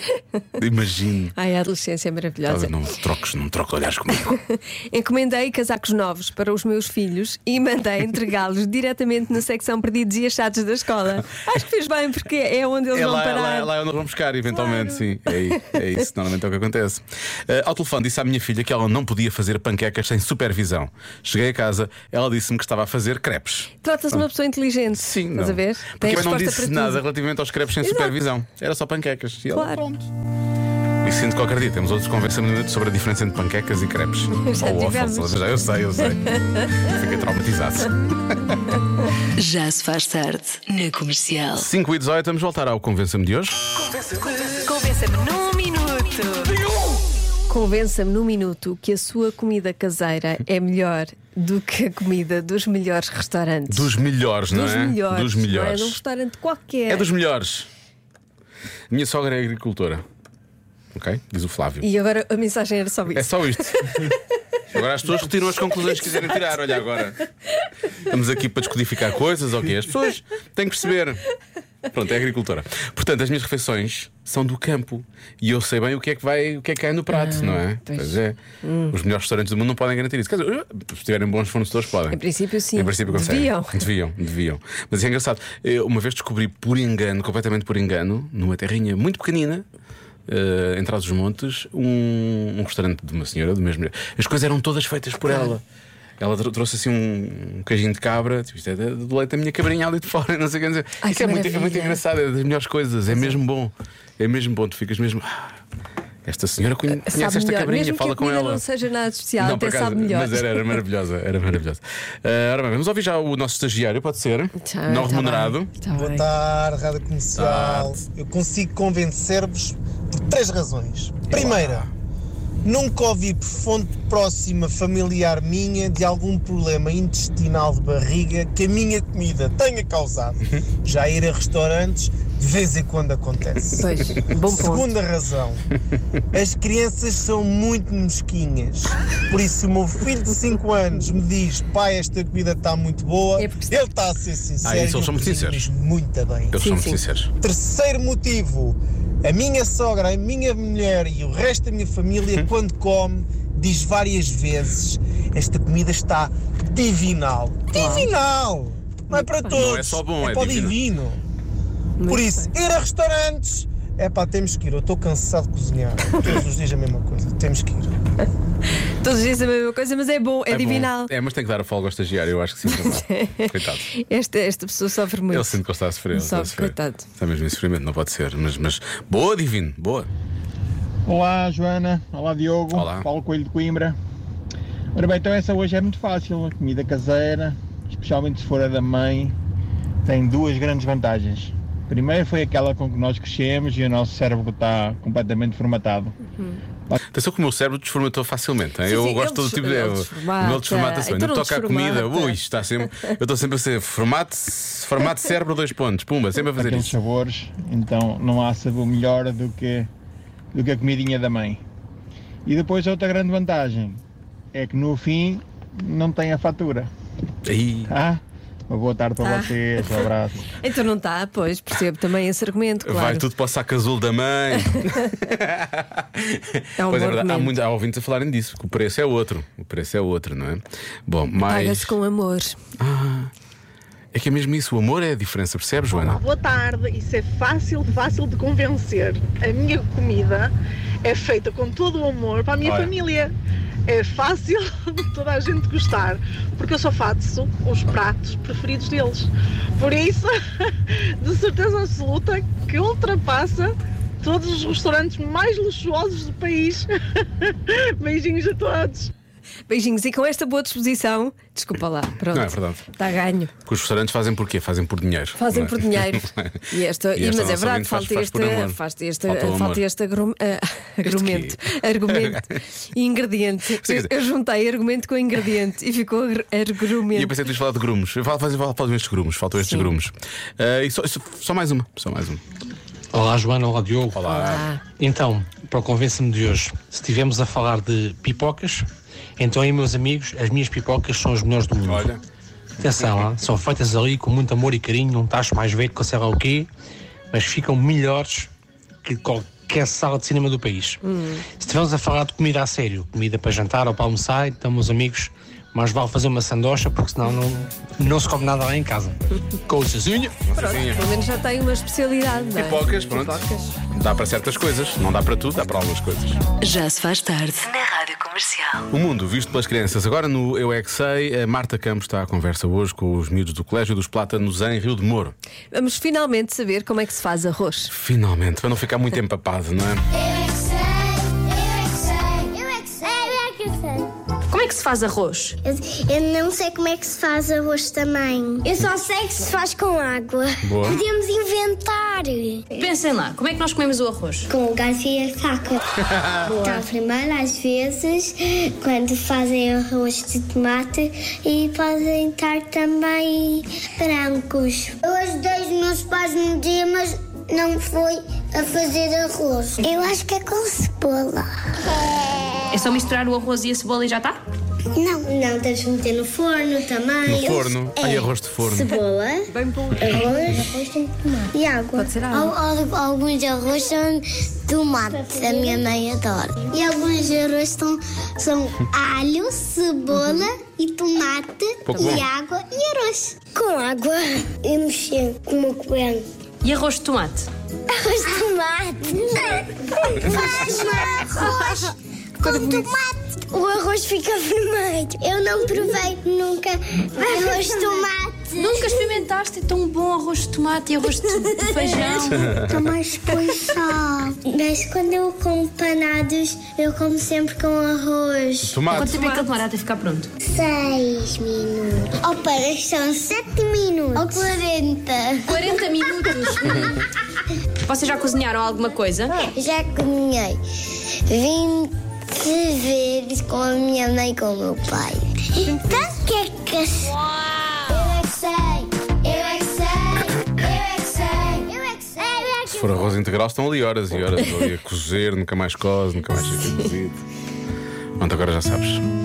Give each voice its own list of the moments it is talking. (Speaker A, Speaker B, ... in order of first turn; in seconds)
Speaker A: 0.6-1.3, 2.5-4.3, 12.9-24.2, 25.0-30.1, 31.0-38.6, 41.5-43.6, 53.7-56.0, 56.9-57.7, 58.9-60.0, 60.9-61.9, 63.1-64.0, 64.7-67.2, 68.0-71.2, 71.9-78.4, 78.9-82.2, 82.8-89.7, 90.3-95.6, 96.2-105.6, 106.2-108.6, 109.4-115.7, 117.3-117.9, 121.3-121.9, 144.6-145.7, 146.5-147.3, 159.5-160.8, 170.5-173.9, 175.3-180.1, 182.7-183.1, 197.1-206.9, 217.4-217.9, 222.8-231.9, 232.8-233.3, 234.1-236.2, 242.6-242.9, 262.3-262.8, 263.7-266.6, 267.2-269.8, 271.1-271.6, 272.1-272.4, 273.8-274.1, 277.1-282.4, 284.1-284.6, 291.8-292.2, 310.4-311.1, 312.6-316.4, 318.9-325.4, 327.9-330.0, 340.6-341.0, 367.2-368.9, 381.9-382.3, 408.6-409.2, 432.7-437.2, 438.2-439.0
Speaker B: 1.3-2.9, 4.3-13.7, 14.6-15.0, 23.8-27.0, 27.8-28.1, 29.5-29.8, 34.4-36.8, 44.5-46.5, 47.5-53.9, 54.5-57.1, 61.8-63.9, 66.0-66.3, 77.1-78.9, 82.1-83.9, 95.3-95.5, 101.0-102.0, 103.1-103.3, 106.9-110.8, 114.6-116.2, 133.8-134.9, 143.4-143.9, 146.6-147.0, 157.7-158.1, 159.1-159.6, 162.0-162.5, 168.9-171.1, 172.7-177.1, 198.8-202.4, 219.2-220.1, 220.6-223.3, 226.8-227.6, 231.4-232.6, 259.7-263.5, 265.4-277.4, 279.6-279.9, 284.2-284.8, 301.1-301.4, 310.6-313.8, 325.7-327.9, 369.5-370.2, 371.9-372.6, 409.0-409.6, 425.6-426.2, 436.6-436.9
Speaker C: 39.4-41.7, 316.6-318.9
Speaker D: 115.9-121.9, 122.6-135.7, 136.3-146.6, 147.4-161.2, 162.1-167.9
Speaker E: 181.1-184.0, 184.9-189.4, 190.1-196.2, 206.6-209.9, 210.5-211.6, 212.4-214.0, 214.5-216.9, 217.9-220.5
Speaker F: 235.9-240.5, 241.0-243.3, 243.9-250.3, 251.2-256.9, 257.7-259.1
Speaker G: 283.1-284.3, 285.0-288.9, 289.4-292.2, 292.8-296.7, 297.3-298.5, 299.0-301.0, 301.6-310.4
Speaker H: 330.1-334.1, 335.6-342.9, 344.5-345.8, 346.4-362.6, 364.9-386.2, 387.9-399.1, 401.6-408.9, 410.4-417.0, 419.5-427.2, 427.8-433.1
Speaker I: 334.5-335.6, 342.8-344.4, 362.8-364.4, 386.6-387.5, 398.6-402.5, 408.9-410.3, 415.5-416.7, 417.9-419.3